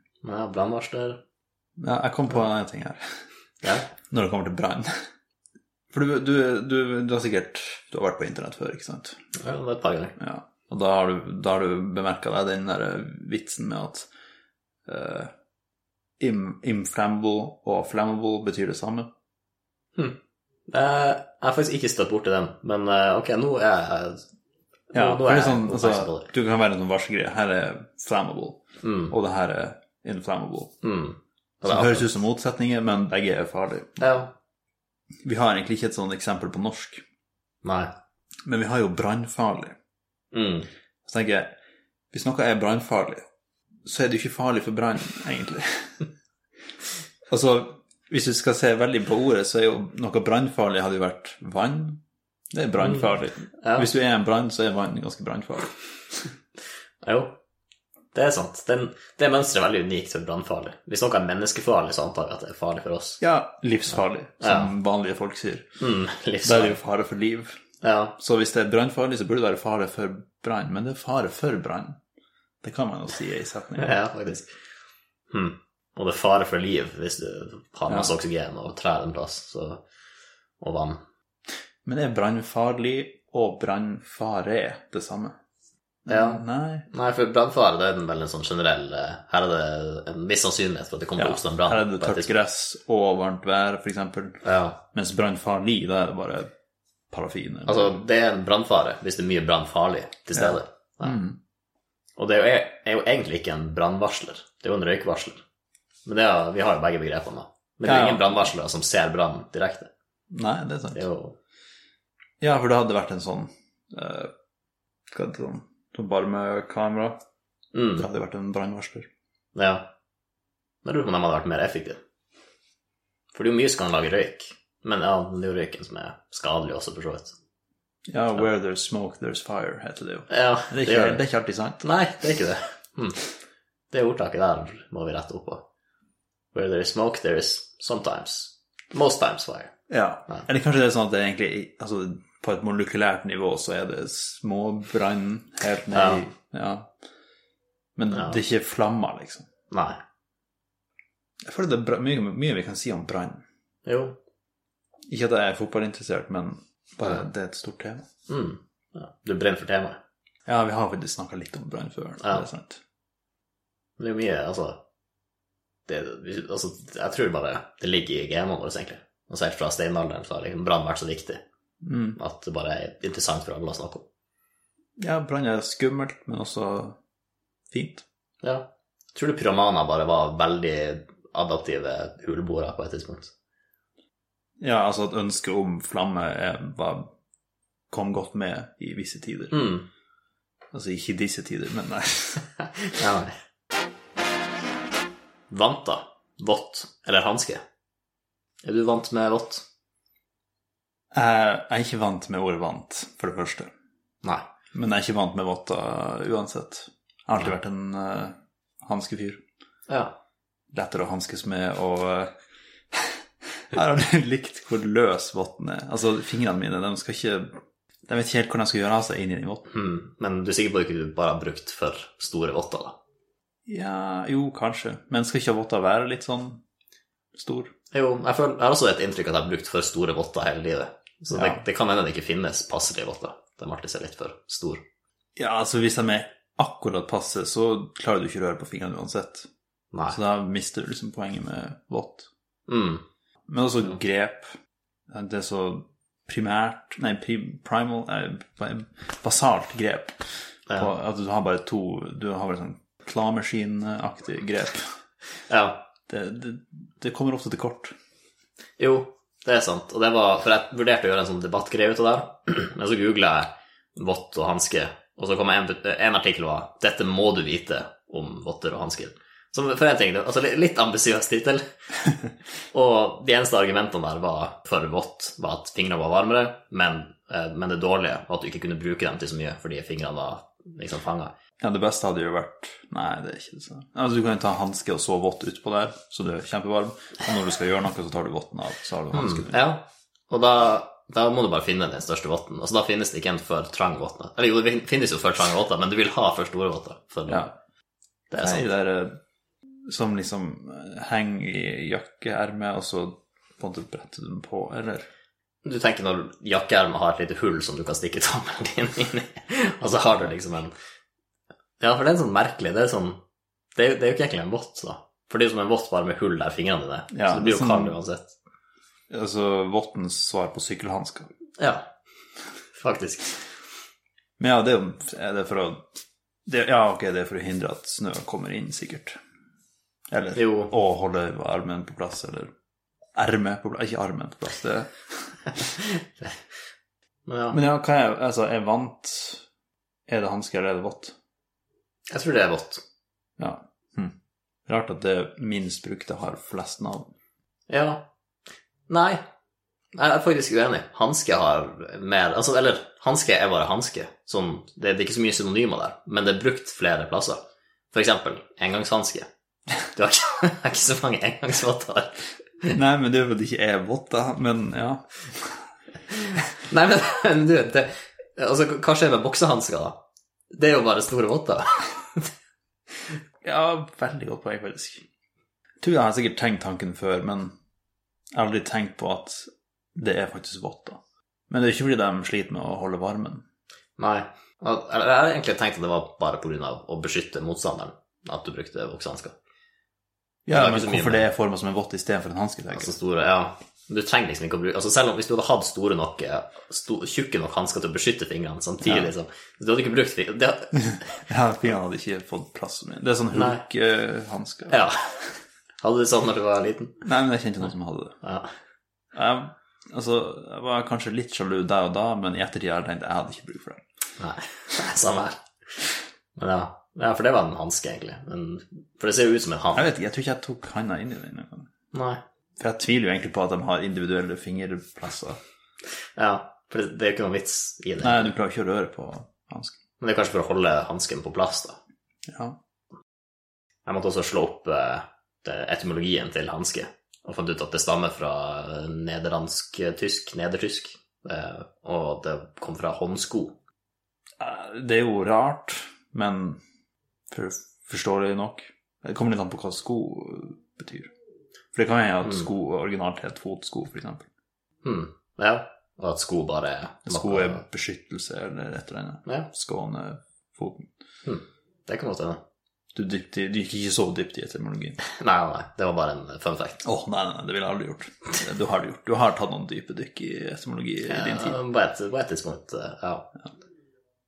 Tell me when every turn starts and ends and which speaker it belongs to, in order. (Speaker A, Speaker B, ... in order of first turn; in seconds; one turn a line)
Speaker A: 0.2-1.2
Speaker B: 1.8-3.0
Speaker B: 4.0-4.9
Speaker B: 5.9-9.2
Speaker A: 9.3-10.2
Speaker B: 10.2-14.1
Speaker B: 14.9-15.3
Speaker B: 16.2-19.1
Speaker A: 20.7-24.2
Speaker B: 24.9-30.8
Speaker A: 24.9-26.3
Speaker A: 28.8-29.1
Speaker A: 30.8-32.1
Speaker B: 31.6-34.1
Speaker A: 34.0-34.3
Speaker B: 35.2-37.0
Speaker A: 37.6-37.9
Speaker B: 38.5-39.8
Speaker A: 40.3-40.7
Speaker B: 41.0-41.5
Speaker B: 42.1-43.2
Speaker B: 43.9-46.0
Speaker B: 47.3-52.0
Speaker B: 52.5-56.2
Speaker A: 53.6-53.9
Speaker A: 57.0-57.4
Speaker A: 58.1-63.2
Speaker B: 63.2-65.7
Speaker A: 64.4-64.7
Speaker A: 65.8-66.8
Speaker B: 66.4-67.6
Speaker A: 67.8-68.2
Speaker B: 68.2-72.0
Speaker B: 72.6-74.0
Speaker A: 73.8-74.6
Speaker A: 75.3-79.8
Speaker B: 77.9-78.1
Speaker A: 80.6-81.0
Speaker B: 81.8-85.4
Speaker B: 86.1-86.9
Speaker A: 86.1-92.3
Speaker B: 91.2-96.5
Speaker A: 94.4-94.8
Speaker B: 97.1-98.0
Speaker A: 97.7-101.2
Speaker B: 100.3-101.4
Speaker A: 102.2-105.4
Speaker A: 106.1-109.9
Speaker B: 107.9-108.5
Speaker B: 110.3-111.0
Speaker A: 110.9-111.4
Speaker B: 112.4-114.3
Speaker B: 115.1-117.2
Speaker A: 117.7-118.0
Speaker B: 118.0-119.1
Speaker A: 119.5-119.9
Speaker A: 120.8-122.0
Speaker A: 123.3-127.3
Speaker B: 128.1-131.8
Speaker A: 130.3-131.2
Speaker A: 131.8-133.2
Speaker A: 133.9-135.6
Speaker A: 136.5-139.7
Speaker B: 139.9-146.9
Speaker A: 145.9-146.2
Speaker B: 148.0-149.5
Speaker A: 149.7-150.0
Speaker B: 151.4-153.4
Speaker A: 153.8-154.2
Speaker B: 155.1-158.1
Speaker A: 158.3-160.0
Speaker B: 160.5-162.8
Speaker A: 164.0-164.8
Speaker A: 165.9-171.4
Speaker B: 171.8-172.2
Speaker A: 172.2-174.1
Speaker B: 175.0-177.0
Speaker B: 177.7-178.1
Speaker A: 178.4-183.3
Speaker B: 184.6-187.1
Speaker B: 187.9-189.7
Speaker A: 189.5-189.9
Speaker B: 190.7-192.5
Speaker A: 192.9-193.3
Speaker A: 195.5-197.6
Speaker A: 198.6-199.7
Speaker B: 201.1-203.7
Speaker B: 204.7-209.4
Speaker A: 209.9-210.2
Speaker B: 210.7-212.3
Speaker B: 212.9-217.6
Speaker B: 218.1-219.7
Speaker A: 219.7-223.0
Speaker B: 223.7-226.6
Speaker B: 227.3-227.7
Speaker A: 227.9-234.8
Speaker B: 231.3-231.6
Speaker B: 235.4-239.5
Speaker B: 240.1-242.3
Speaker A: 242.7-243.1
Speaker B: 243.5-244.5
Speaker B: 245.1-254.9
Speaker A: 255.5-255.8
Speaker B: 256.1-257.9
Speaker A: 258.8-271.6
Speaker A: 272.7-281.3
Speaker B: 281.6-289.6
Speaker A: 289.1-297.5
Speaker B: 297.3-297.5
Speaker A: 298.3-298.7
Speaker B: 298.4-299.2
Speaker B: 299.9-305.1
Speaker A: 305.6-310.7
Speaker A: 311.8-313.2
Speaker A: 313.8-318.4
Speaker B: 317.1-318.0
Speaker B: 319.1-321.3
Speaker A: 321.6-321.9
Speaker A: 322.7-323.4
Speaker B: 324.4-325.9
Speaker B: 326.5-329.2
Speaker B: 330.1-332.5
Speaker A: 330.4-330.7
Speaker B: 333.2-335.5
Speaker A: 336.0-336.4
Speaker A: 337.3-337.6
Speaker B: 337.5-339.4
Speaker B: 340.1-341.1
Speaker A: 342.1-342.8
Speaker B: 343.4-344.1
Speaker B: 344.7-347.1
Speaker A: 347.7-348.1
Speaker A: 348.9-349.2
Speaker A: 349.9-357.4
Speaker A: 357.9-359.3
Speaker A: 359.9-362.8
Speaker B: 362.7-365.6
Speaker A: 366.1-370.0
Speaker A: 370.5-372.3
Speaker B: 373.4-375.1
Speaker B: 375.8-377.6
Speaker B: 378.3-381.0
Speaker B: 381.5-383.4
Speaker A: 384.0-389.4
Speaker B: 390.5-392.9
Speaker A: 390.5-391.2
Speaker A: 392.7-400.7
Speaker B: 398.8-399.1
Speaker B: 400.7-404.8
Speaker A: 403.3-403.6
Speaker A: 404.7-407.0
Speaker B: 407.0-408.2
Speaker A: 408.2-408.5
Speaker B: 409.1-413.8
Speaker A: 414.2-415.8
Speaker A: 416.4-419.9
Speaker B: 419.7-421.7
Speaker A: 421.9-422.2
Speaker B: 422.6-425.4
Speaker A: 426.1-428.3
Speaker B: 428.0-429.8
Speaker A: 430.0-431.8
Speaker B: 432.3-432.6
Speaker A: 433.9-443.6
Speaker B: 444.4-446.6
Speaker B: 447.3-451.1
Speaker B: 451.7-454.3
Speaker A: 454.8-457.6
Speaker B: 457.1-460.9
Speaker A: 461.2-462.4
Speaker B: 462.9-465.0
Speaker A: 465.0-466.8
Speaker B: 466.8-471.6
Speaker A: 471.1-473.3